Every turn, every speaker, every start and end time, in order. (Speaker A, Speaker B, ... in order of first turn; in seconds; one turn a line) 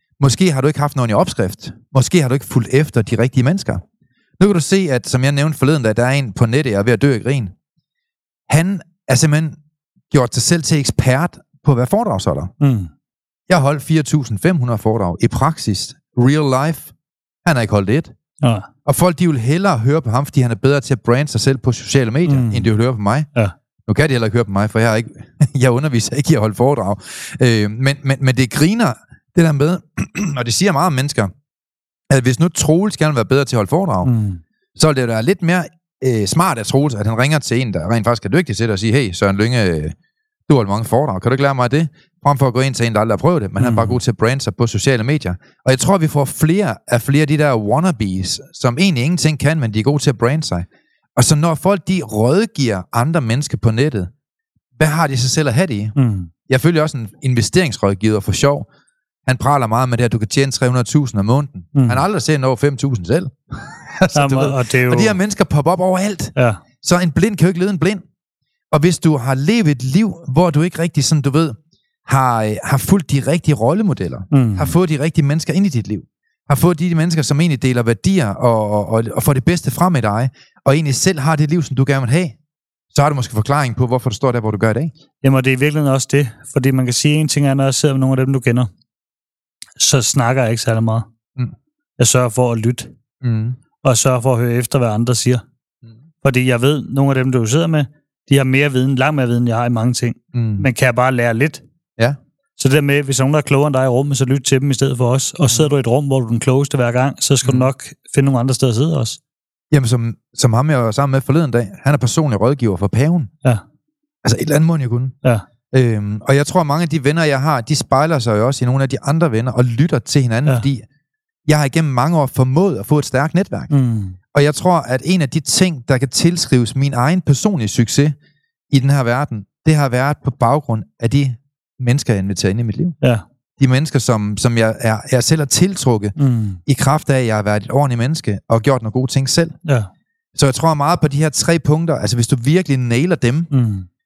Speaker A: 0.2-3.8
Speaker A: 4.4-7.5
Speaker A: 8.5-9.6
Speaker A: 10.1-12.5
Speaker B: 12.6-12.9
Speaker A: 13.5-16.9
Speaker A: 17.4-18.1
Speaker B: 18.4-18.7
Speaker A: 18.9-23.3
Speaker B: 22.2-22.7
Speaker A: 23.9-31.3
Speaker A: 32.1-34.1
Speaker B: 34.0-34.4
Speaker A: 34.8-39.9
Speaker A: 40.5-54.1
Speaker B: 43.6-44.0
Speaker A: 54.8-55.9
Speaker B: 56.0-56.3
Speaker A: 56.5-58.7
Speaker A: 59.2-68.0
Speaker B: 61.7-62.0
Speaker B: 64.1-65.2
Speaker B: 66.3-66.6
Speaker A: 68.7-82.4
Speaker B: 74.3-74.8
Speaker A: 82.9-84.9
Speaker B: 85.2-88.7
Speaker B: 89.8-91.0
Speaker B: 92.0-92.9
Speaker A: 93.2-93.6
Speaker B: 93.8-95.4
Speaker B: 96.2-101.6
Speaker A: 100.3-100.7
Speaker B: 102.6-109.2
Speaker A: 107.4-107.7
Speaker A: 109.7-113.3
Speaker A: 114.2-115.1
Speaker A: 115.7-120.8
Speaker A: 121.5-123.7
Speaker B: 123.7-124.2
Speaker A: 124.3-128.1
Speaker A: 128.7-132.9
Speaker A: 133.6-136.1
Speaker B: 136.2-136.6
Speaker A: 136.7-139.6
Speaker A: 140.3-143.5
Speaker B: 143.5-143.9